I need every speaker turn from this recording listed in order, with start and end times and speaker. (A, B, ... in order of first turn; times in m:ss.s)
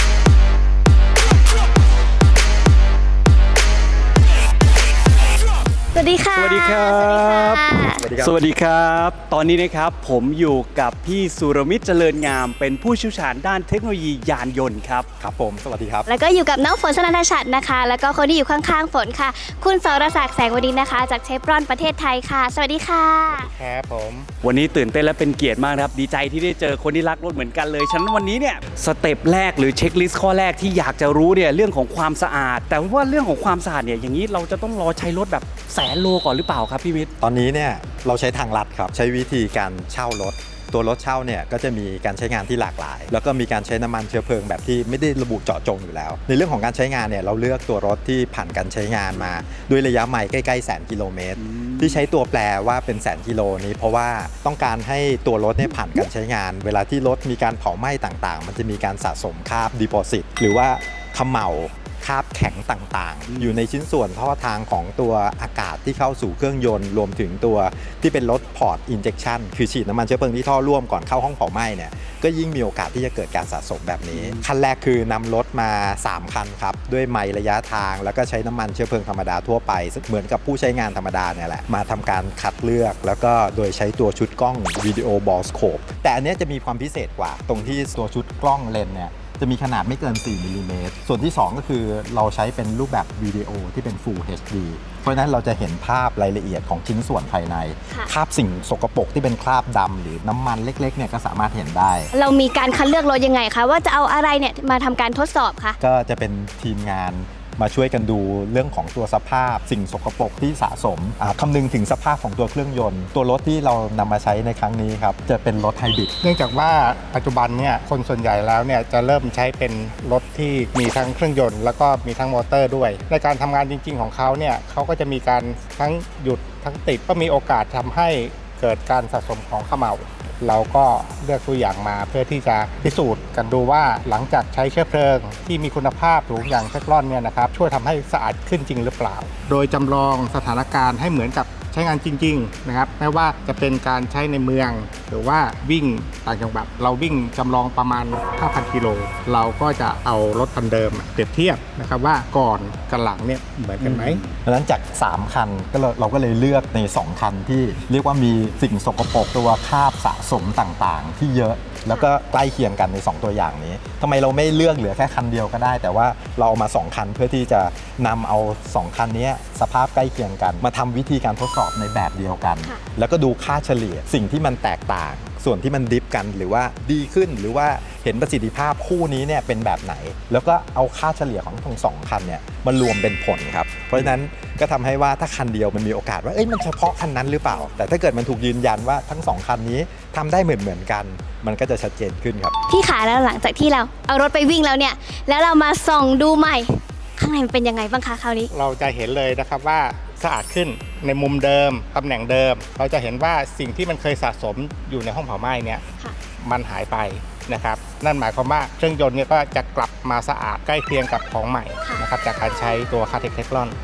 0:05.9-0:08.0 A
0:06.3-0:15.1 B
0:07.9-0:08.4 C
0:15.2-0:16.1 C
0:16.1-0:23.5 A
0:23.3-0:24.3 D
0:24.4-0:37.1 B
0:37.2-1:42.1 C
1:14.1-1:14.4 B
1:42.1-1:45.8 A
1:45.8-1:56.1 C
1:56.2-2:34.2 D
2:33.8-2:34.2 B
2:34.3-3:12.5 C
3:12.7-3:18.5 A
3:18.5-3:25.8 D
3:26.4-3:33.7 D